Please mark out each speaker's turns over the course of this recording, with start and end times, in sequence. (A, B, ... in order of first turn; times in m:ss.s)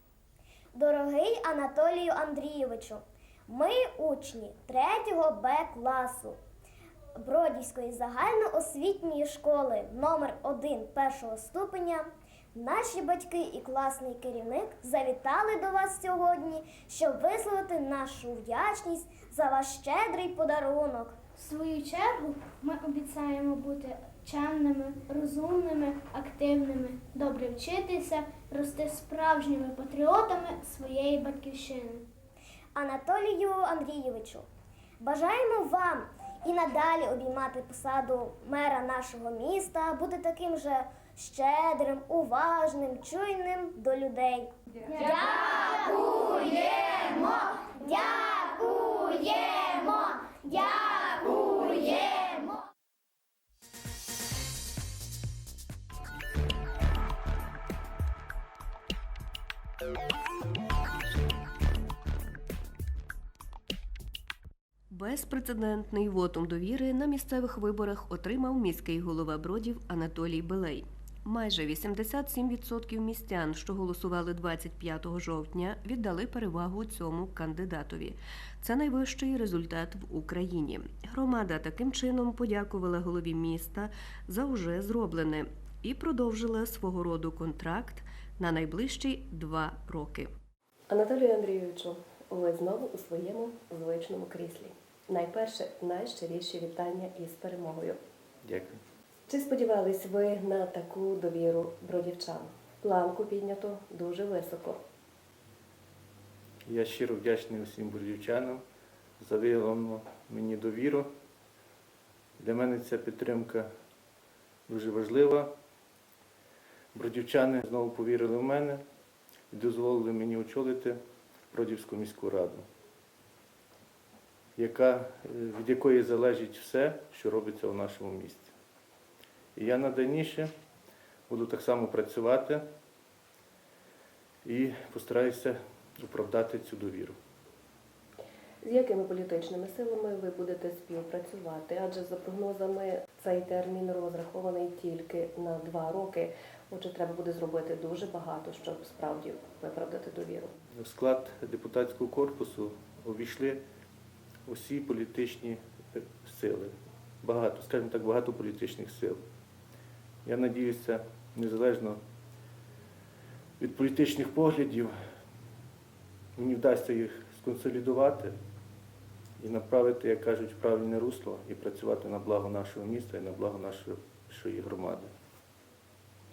0:00.7-0:06.4 A
0:07.2-0:21.2 A
0:21.4-0:32.1 B
0:32.7-0:34.4 A
0:35.0-0:52.6 A
1:04.9-1:30.3 C
1:30.9-1:38.0 D
1:38.4-1:38.8 E
1:39.3-1:44.8 D
1:46.6-1:48.6 E
1:49.2-1:51.1 E
1:52.4-1:53.7 E
1:54.7-1:55.5 E
1:56.9-1:58.8 E
1:59.5-2:01.0 E
2:01.5-2:02.6 E
2:04.6-2:08.5 E
2:09.6-2:10.5 E
2:11.3-2:12.6 E
2:14.4-2:17.2 E
2:18.6-2:30.5 D
2:30.7-2:33.6 E
2:34.5-2:39.2 E
2:40.2-2:42.0 E
2:43.6-2:44.9 E
2:46.4-2:48.3 E
2:49.4-2:55.1 E